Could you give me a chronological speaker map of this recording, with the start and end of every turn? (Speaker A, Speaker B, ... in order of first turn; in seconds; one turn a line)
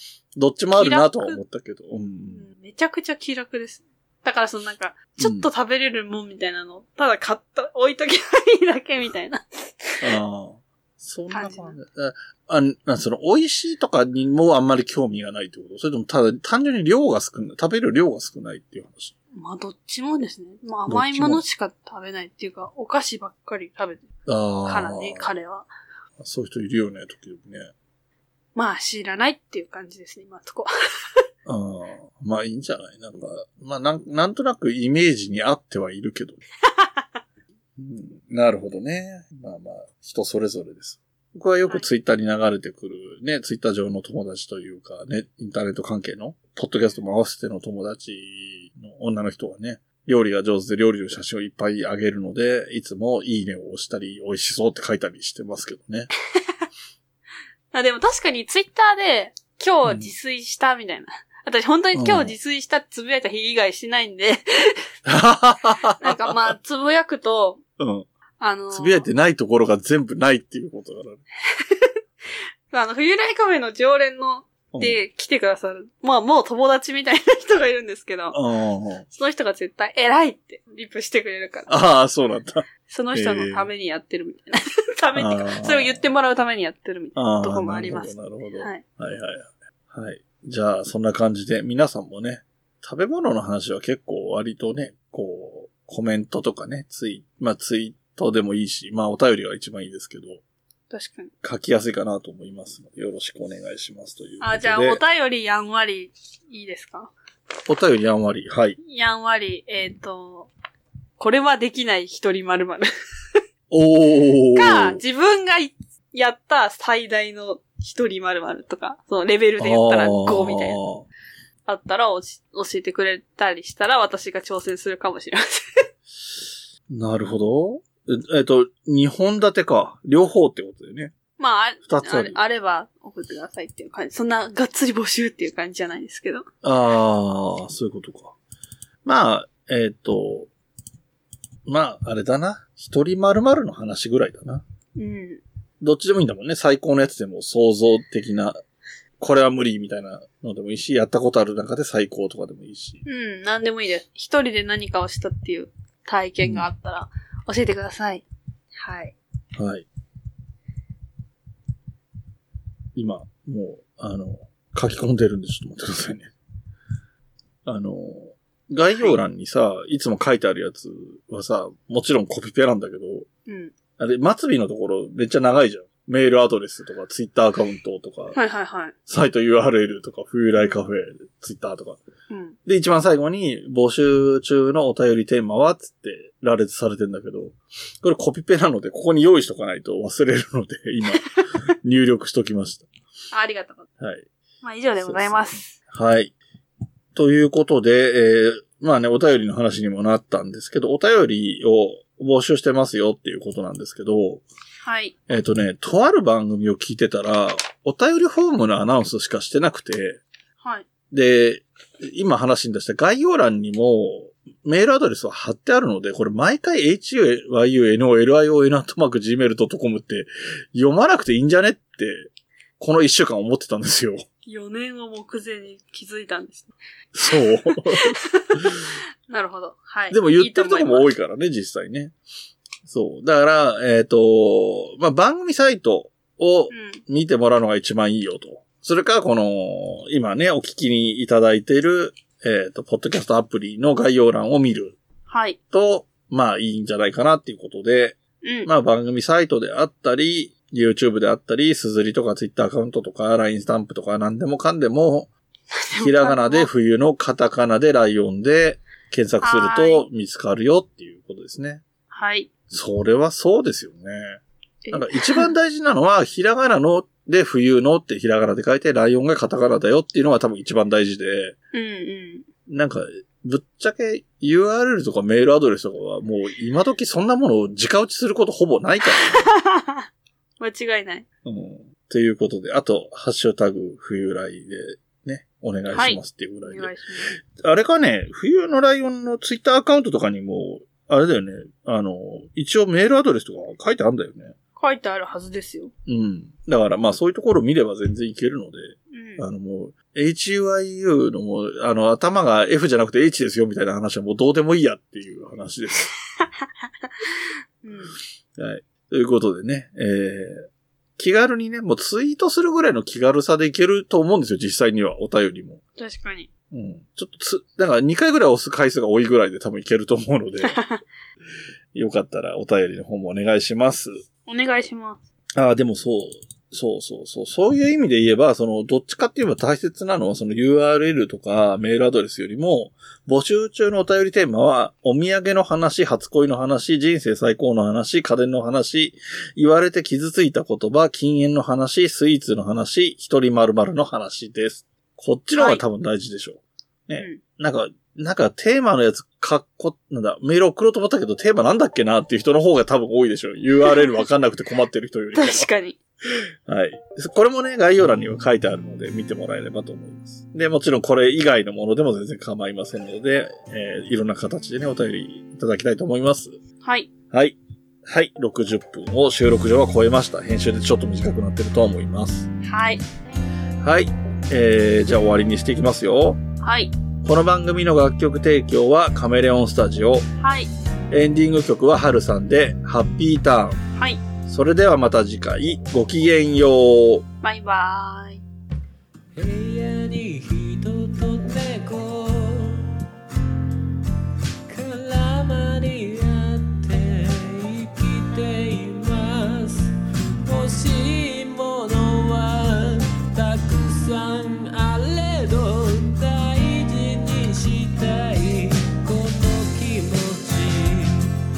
Speaker A: 0.4-2.5
Speaker B: 0.8-1.4
Speaker B: 2.3-10.2
Speaker A: 5.2-5.5
Speaker A: 10.0-19.1
Speaker B: 11.3-11.8
Speaker B: 19.4-24.1
Speaker A: 20.9-21.4
Speaker A: 24.3-25.3
Speaker B: 24.6-25.7
Speaker A: 26.2-27.7
Speaker B: 28.6-30.7
Speaker A: 31.5-36.4
Speaker A: 37.8-56.1
Speaker B: 57.7-64.8
Speaker A: 59.9-60.1
Speaker A: 62.0-62.3
Speaker A: 65.1-66.4
Speaker B: 66.0-67.6
Speaker A: 67.8-68.1
Speaker B: 68.4-69.1
Speaker A: 68.7-71.2
Speaker B: 71.6-71.9
Speaker B: 72.7-78.4
Speaker A: 74.7-75.0
Speaker A: 78.3-79.0
Speaker B: 79.1-81.7
Speaker A: 81.7-83.7
Speaker B: 82.9-88.8
Speaker A: 85.2-86.0
Speaker A: 87.2-100.4
Speaker B: 100.9-101.3
Speaker A: 101.4-105.0
Speaker B: 104.4-107.1
Speaker A: 107.7-108.8
Speaker B: 108.8-110.5
Speaker B: 111.2-112.9
Speaker A: 113.7-115.0
Speaker B: 114.5-120.8
Speaker A: 119.6-121.1
Speaker B: 121.7-125.6
Speaker A: 126.9-131.2
Speaker B: 131.4-136.4
Speaker A: 131.9-132.4
Speaker A: 136.6-138.3
Speaker A: 139.1-140.5
Speaker A: 141.7-144.6
Speaker B: 145.0-145.4
Speaker A: 145.8-148.6
Speaker A: 149.2-153.0
Speaker B: 153.1-158.2
Speaker A: 156.4-156.7
Speaker B: 158.8-159.1
Speaker A: 159.6-159.9
Speaker A: 162.9-166.3
Speaker A: 167.7-173.3
Speaker B: 173.5-173.7
Speaker A: 174.0-178.4
Speaker B: 178.3-178.9
Speaker A: 179.1-182.0
Speaker B: 182.3-182.6
Speaker A: 182.7-192.9
Speaker B: 193.3-193.9
Speaker A: 194.0-194.3
Speaker B: 194.6-195.8
Speaker A: 195.0-196.3
Speaker A: 197.1-204.4
Speaker B: 204.8-205.2
Speaker A: 205.3-210.2
Speaker B: 210.6-210.9
Speaker A: 211.1-222.3
Speaker A: 222.8-224.2
Speaker B: 224.5-226.7
Speaker A: 227.2-228.7
Speaker B: 227.7-231.1
Speaker A: 230.1-232.2
Speaker A: 232.9-245.0
Speaker B: 236.7-237.0
Speaker B: 245.3-245.6
Speaker A: 245.7-255.3
Speaker B: 248.4-248.7
Speaker B: 255.7-256.7
Speaker A: 256.0-261.8
Speaker B: 259.4-260.1
Speaker B: 262.1-262.5
Speaker A: 262.7-264.4
Speaker B: 264.9-265.5
Speaker A: 264.9-271.6
Speaker B: 271.7-272.5
Speaker A: 272.7-279.5
Speaker B: 279.1-280.1
Speaker B: 280.6-281.2
Speaker A: 281.4-286.9
Speaker B: 285.9-287.4
Speaker A: 287.5-294.6
Speaker B: 294.8-295.9
Speaker A: 296.1-306.1
Speaker B: 299.1-299.4
Speaker B: 307.8-308.2
Speaker A: 308.6-310.6
Speaker A: 311.2-315.8
Speaker B: 316.0-316.5
Speaker A: 316.7-320.8
Speaker B: 320.6-321.0
Speaker A: 321.9-324.1
Speaker B: 324.5-325.2
Speaker A: 325.6-355.7
Speaker B: 345.6-345.8
Speaker B: 353.8-354.2
Speaker B: 355.4-356.0
Speaker A: 356.7-366.6
Speaker B: 366.8-367.1
Speaker A: 367.3-372.5
Speaker B: 372.6-373.0
Speaker A: 373.8-376.4
Speaker B: 376.6-376.9
Speaker A: 377.2-380.3
Speaker B: 380.4-380.7
Speaker A: 381.1-383.8
Speaker B: 384.0-384.2
Speaker A: 384.5-387.2
Speaker B: 387.4-388.4
Speaker C: 389.4-392.9
Speaker C: 394.7-399.9
Speaker C: 400.4-411.3